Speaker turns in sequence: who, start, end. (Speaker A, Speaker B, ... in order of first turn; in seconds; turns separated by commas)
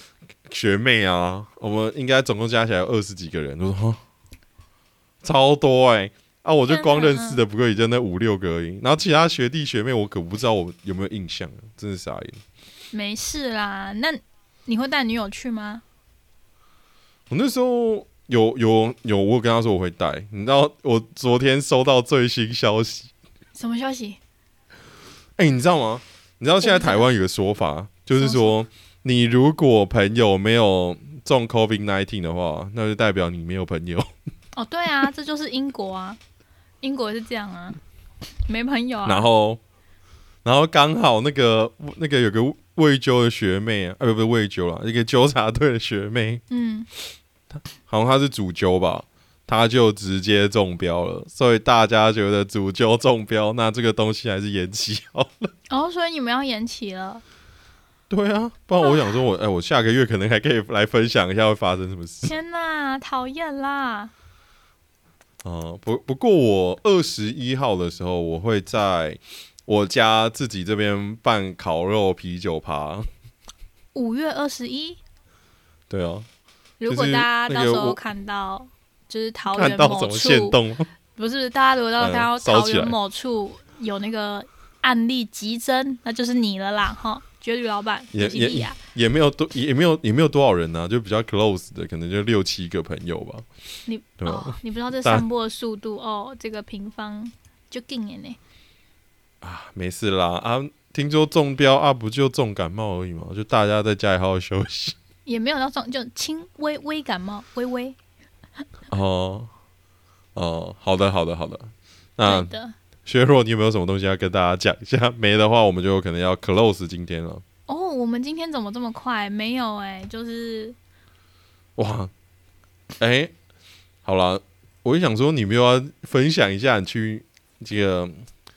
Speaker A: 0.5-4.0, Speaker A: 5.2-12.4, Speaker B: 6.7-7.4, Speaker B: 12.9-15.8, Speaker A: 17.3-23.1, Speaker B: 23.5-24.2, Speaker A: 25.4-34.1, Speaker B: 26.6-27.0, Speaker B: 28.2-28.5, Speaker B: 34.5-36.2, Speaker B: 36.8-37.8, Speaker B: 38.4-39.3, Speaker A: 39.0-39.6, Speaker A: 40.4-46.4, Speaker B: 46.5-46.9, Speaker A: 47.5-55.5, Speaker B: 55.7-57.2, Speaker A: 58.1-62.3, Speaker B: 58.8-59.2, Speaker B: 62.2-64.1, Speaker A: 65.4-73.1, Speaker B: 73.9-75.0, Speaker A: 75.9-76.3, Speaker B: 76.8-80.6, Speaker A: 76.9-78.0, Speaker A: 79.5-80.9, Speaker B: 81.1-88.8, Speaker A: 82.0-83.0, Speaker A: 88.1-93.5, Speaker B: 93.8-98.4, Speaker A: 94.2-95.2, Speaker A: 99.4-105.0, Speaker B: 105.2-108.0, Speaker A: 108.9-109.5, Speaker A: 110.3-112.5, Speaker B: 112.2-112.8, Speaker A: 113.0-117.4, Speaker B: 117.7-120.8, Speaker A: 121.8-122.1, Speaker A: 123.0-123.3, Speaker A: 124.0-128.2